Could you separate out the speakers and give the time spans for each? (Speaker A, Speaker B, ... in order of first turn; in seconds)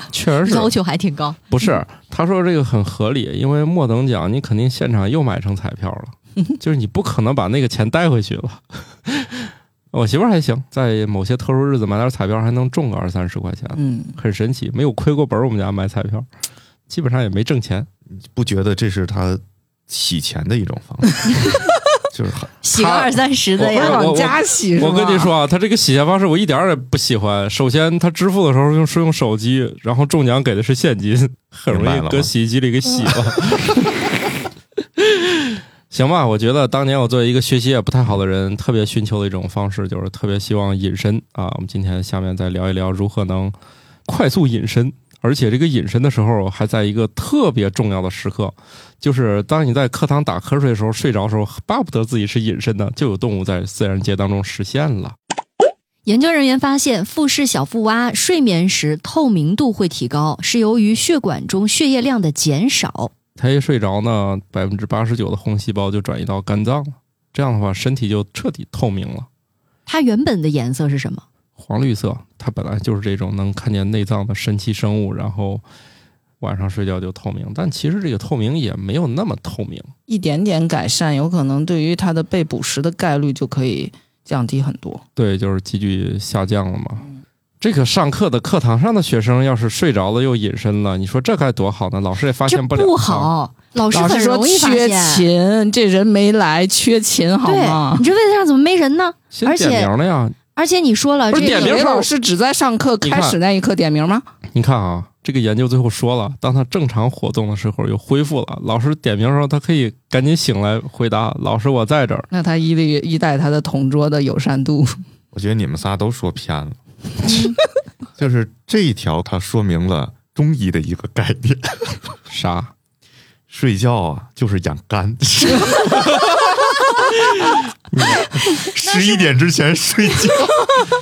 Speaker A: 0.1-0.7, 1.5-16.3, 16.9-17.9, 22.7-34.0, 35.0-43.5, 44.1-55.1, 63.4-69.3, 71.6-75.6, 76.4-79.9, 85.2-87.1, 87.6-93.3, 99.3-100.4, 101.3-102.1, 103.0-103.4, 104.5-112.3, 122.3-122.7, 127.9-128.2
Speaker B: 0.4-1.4, 22.6-24.2, 56.1-63.1, 69.9-71.2, 92.5-95.3, 97.4-99.9, 100.5-101.8, 117.2-117.6, 128.9-129.2
Speaker C: 13.8-14.2, 23.6-25.3, 80.1-85.0, 93.9-98.1, 101.3-104.3, 112.3-115.0
Speaker D: 18.1-21.4, 22.1-22.5, 31.7-32.3, 115.3-116.8, 118.2-122.0, 123.5-126.8, 128.4-130.9